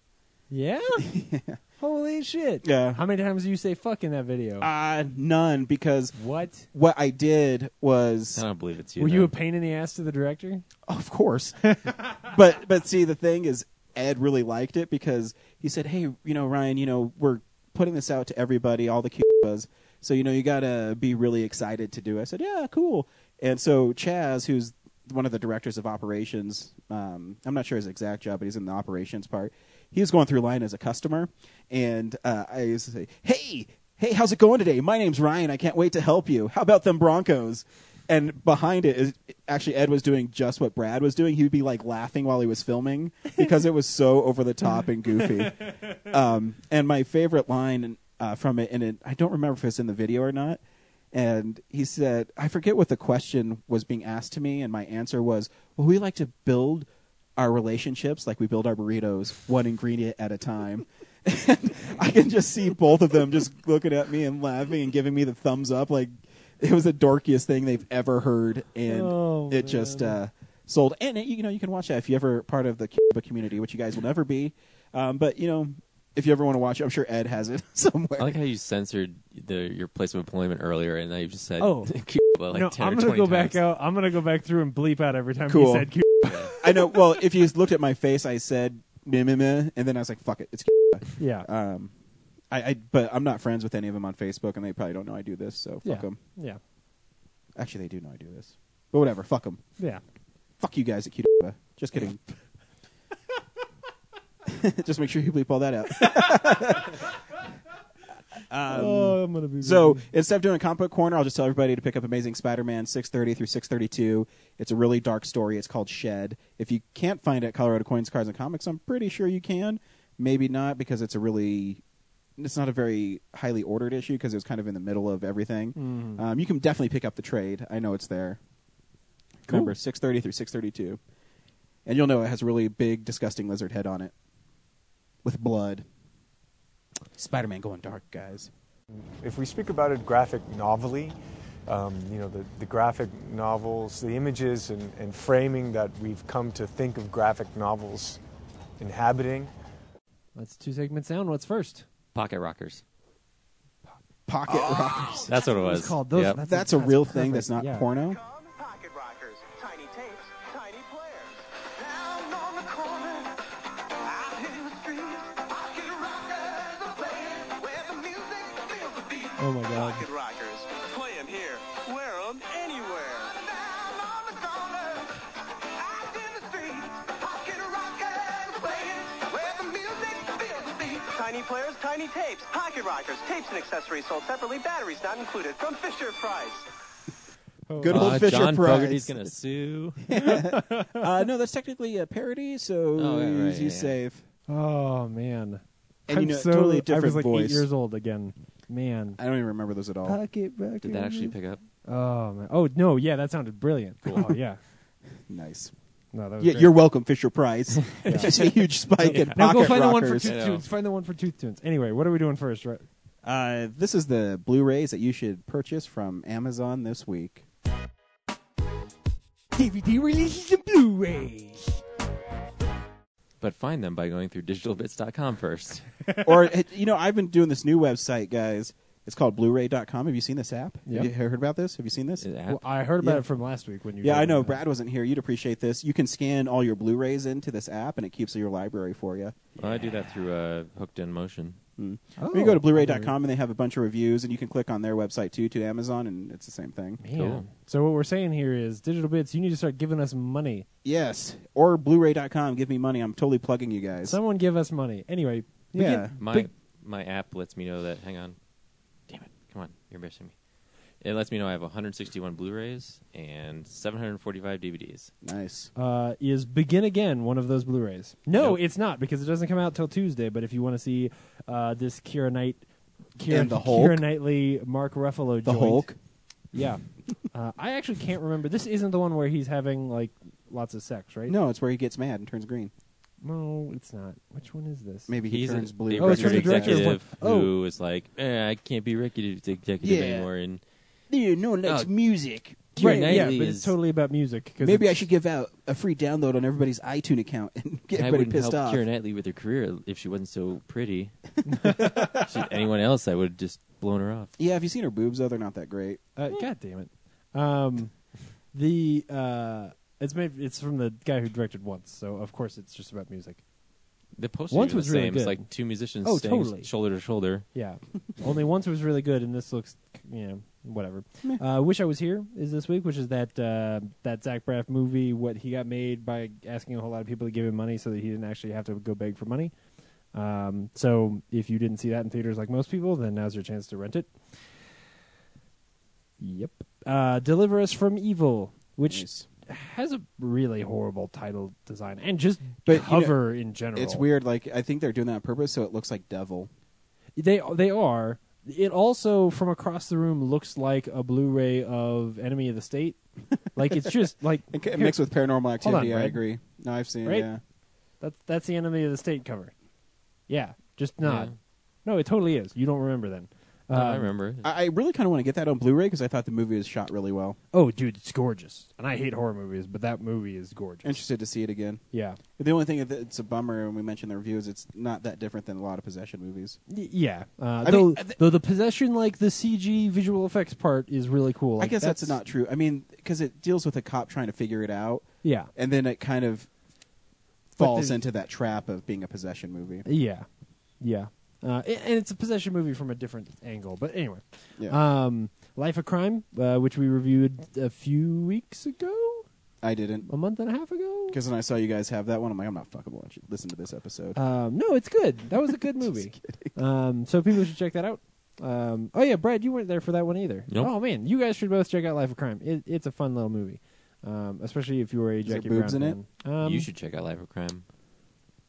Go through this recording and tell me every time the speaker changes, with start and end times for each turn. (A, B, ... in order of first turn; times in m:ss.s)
0:00.5-0:01.1 A
0:01.0-0:01.6 B
0:01.8-0:04.7 A
0:02.6-0:03.0 B
0:04.6-0:06.2 B
0:06.2-0:06.7 A
0:06.7-0:08.4 B
0:08.4-0:09.3 C
0:09.0-0:10.6 A
0:10.9-0:50.6 B
0:11.7-0:12.2 A
0:51.1-1:18.4 B
1:08.9-1:10.2 A
1:18.2-1:23.6 C
1:21.6-1:22.0 A
1:22.5-1:27.0 A
1:25.5-1:25.9 B
1:26.2-1:26.5 C
1:26.6-1:31.9 B
1:31.2-1:31.5 A
1:32.5-1:36.2 B
1:35.8-1:36.6 A
1:37.6-1:39.6 B
1:40.6-1:42.2 B
1:44.5-1:47.0 B
1:46.0-1:46.6 A
1:48.5-2:01.8 B
1:48.7-1:50.1 A
2:02.4-2:08.4 B
2:05.8-2:06.2 A
2:09.5-2:11.0 B
2:09.5-2:09.7 A
2:11.9-2:14.1 B
2:15.2-2:15.8 B
2:17.2-2:18.5 B
2:19.0-2:28.2 D
2:28.8-2:29.5 D
2:30.4-2:31.8 A
2:32.2-2:32.8 C
2:34.3-2:35.3 B
2:34.9-2:37.9 A
2:35.3-2:36.4 C
2:36.4-2:38.2 B
2:38.0-2:55.2 E
2:49.4-2:50.0 A
2:55.7-3:06.7 E
3:07.7-3:08.2 A
3:07.8-3:09.3 B
3:07.9-3:10.0 C
3:10.0-3:14.3 B
3:10.1-3:11.0 A
3:13.0-3:14.0 C
3:14.5-3:19.2 A
3:16.1-3:17.7 B
3:19.2-3:20.2 B
3:20.0-3:24.6 A
3:20.8-3:21.6 C
3:25.3-3:25.7 B
3:26.1-3:26.8 A
3:26.4-3:30.4 B
3:28.0-3:28.3 C
3:28.0-3:28.4 A
3:29.0-3:32.9 A
3:29.0-3:30.6 C
3:33.2-3:37.4 B
3:39.6-3:41.8 A
3:43.4-3:45.9 C
3:46.2-3:52.3 B
3:52.2-3:52.6 C
3:52.5-3:54.6 A
3:54.0-3:59.5 B
3:59.6-4:01.6 C
4:01.8-4:07.0 B
4:02.2-4:03.1 A
4:07.0-4:10.7 A
4:07.2-4:07.5 C
4:10.8-4:14.2 B
4:14.0-4:16.5 A
4:15.7-4:16.1 B
4:16.2-4:18.4 C
4:19.1-4:20.3 C
4:21.0-4:25.1 C
4:25.2-4:25.7 B
4:25.8-4:32.6 A
4:33.2-4:35.9 A
4:33.3-4:34.1 B
4:35.4-4:36.0 B
4:36.5-4:41.4 A
4:41.3-4:42.7 B
4:43.2-4:45.1 A
4:45.1-4:46.9 B
4:45.3-4:50.6 C
4:46.0-4:47.5 A
4:49.8-4:50.3 B
4:51.1-4:53.3 B
4:51.7-4:51.9 C
4:52.7-4:53.7 C
4:52.8-4:55.1 A
4:54.6-4:58.8 B
4:57.9-5:01.2 C
5:01.5-5:01.9 A
5:01.7-5:04.3 C
5:01.8-5:02.2 B
5:04.4-5:06.0 B
5:06.2-5:08.0 A
5:08.5-5:13.4 A
5:14.2-5:17.5 C
5:14.5-5:15.5 A
5:16.0-5:16.7 A
5:17.5-5:29.5 A
5:30.1-5:34.1 A
5:36.2-5:44.1 A
5:38.9-5:39.3 B
5:42.6-5:43.2 B
5:43.7-5:46.5 B
5:47.2-5:53.0 A
5:53.5-5:55.0 A
5:53.7-5:57.4 B
5:55.6-5:56.2 A
5:58.0-5:59.5 A
6:00.3-6:01.3 A
6:01.0-6:01.4 C
6:01.8-6:04.1 A
6:03.7-6:04.5 C
6:04.4-6:07.4 B
6:07.5-6:11.0 A
6:10.8-6:11.8 B
6:11.9-6:12.2 A
6:12.4-6:16.6 B
6:16.7-6:22.2 A
6:17.6-6:18.2 B
6:21.6-6:26.5 B
6:25.2-6:25.5 A
6:27.6-6:29.9 B
6:27.6-6:28.0 A
6:29.9-6:30.3 A
6:30.8-6:39.3 A
6:39.6-6:40.1 B
6:40.1-6:41.2 A
6:41.1-6:44.2 B
6:44.2-6:56.7 A
6:45.5-6:46.5 B
6:55.2-6:56.0 B
6:56.4-6:57.6 C